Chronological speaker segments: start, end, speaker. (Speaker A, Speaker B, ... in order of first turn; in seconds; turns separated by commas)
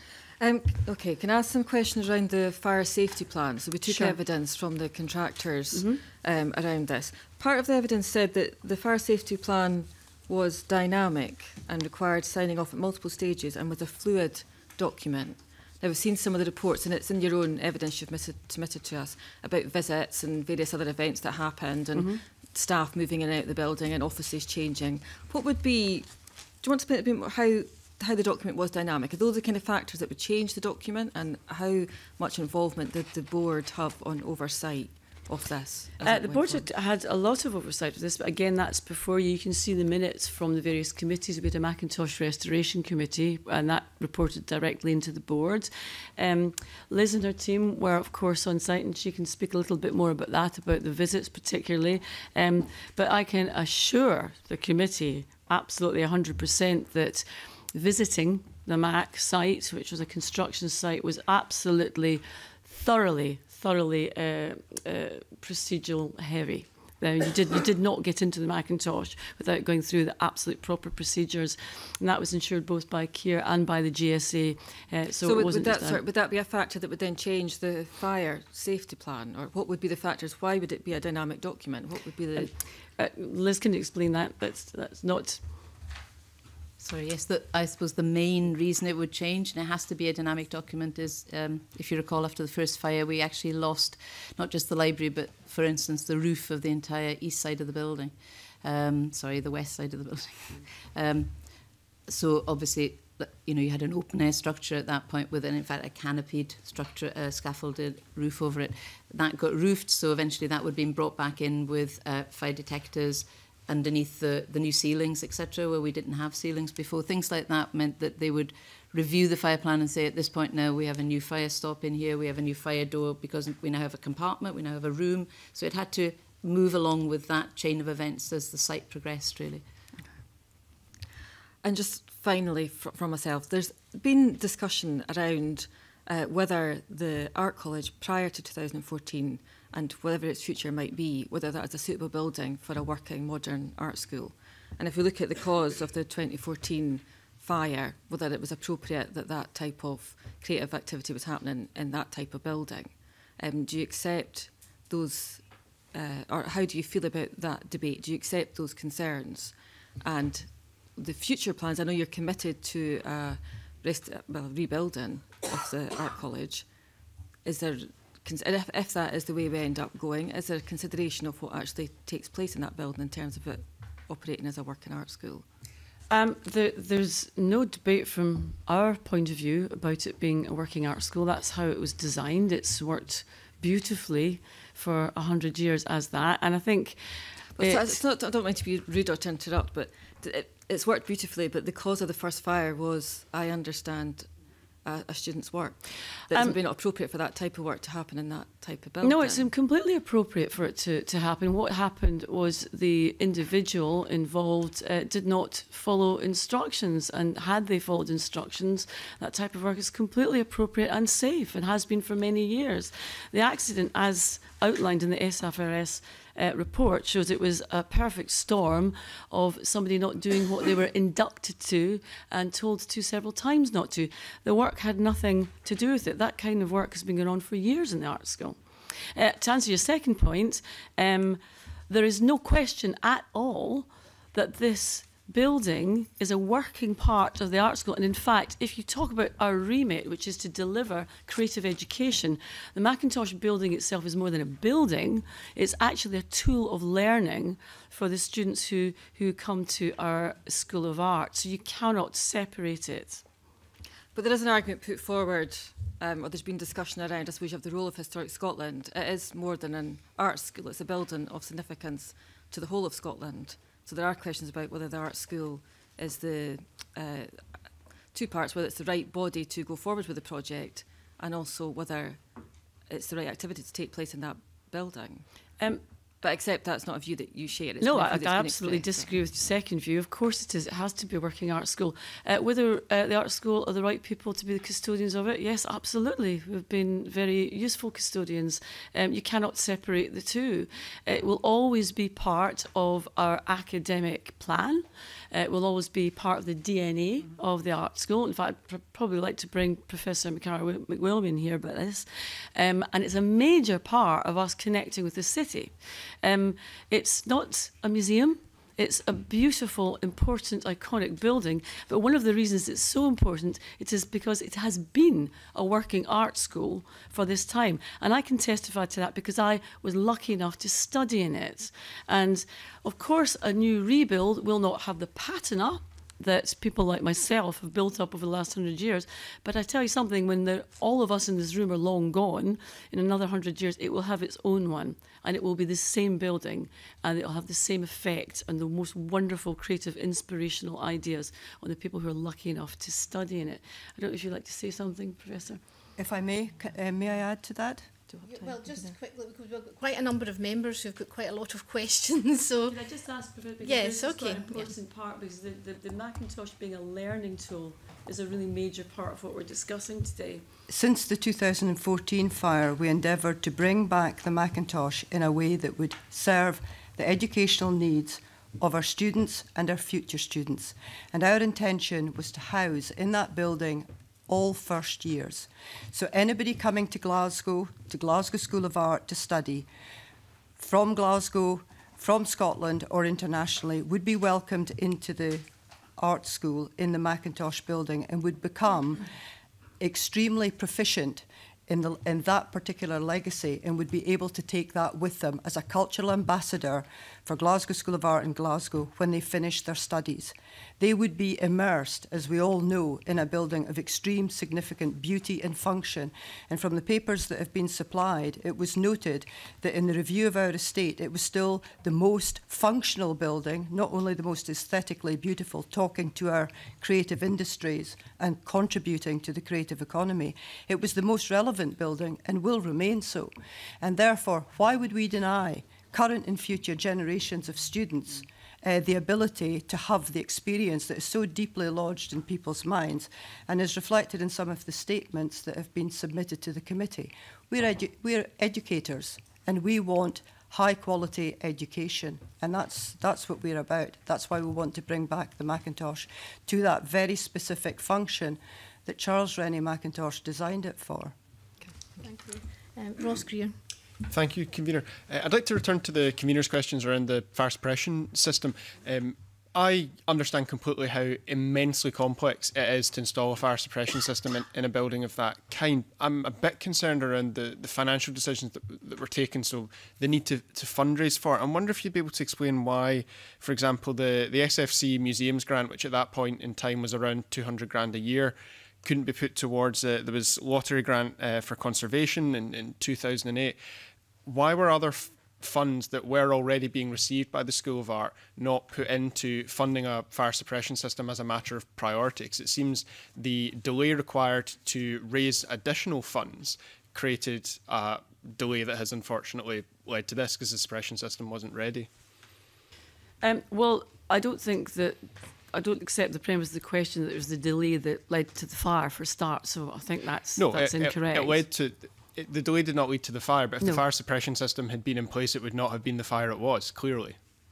Speaker A: 0.4-36.6, Speaker B: 3.8-4.2, Speaker B: 5.7-6.0, Speaker B: 21.9-22.2, Speaker B: 36.0-76.0, Speaker A: 75.2-82.5, Speaker B: 82.3-85.4, Speaker C: 86.8-129.6, Speaker A: 131.6-166.7, Speaker A: 167.4-175.4, Speaker B: 176.1-187.0, Speaker A: 187.6-194.3, Speaker B: 187.6-188.0, Speaker A: 194.8-199.5, Speaker B: 196.3-196.6, Speaker B: 199.0-253.2, Speaker A: 254.1-275.3, Speaker A: 276.2-279.1, Speaker B: 277.8-345.6, Speaker D: 345.9-347.9, Speaker E: 348.2-352.8, Speaker B: 352.7-360.4, Speaker E: 353.6-354.7, Speaker D: 360.7-379.7, Speaker D: 380.6-389.1, Speaker D: 389.8-451.1, Speaker E: 452.0-453.6, Speaker F: 454.1-483.6, Speaker F: 484.2-501.9, Speaker B: 503.2-511.5, Speaker F: 510.3-517.2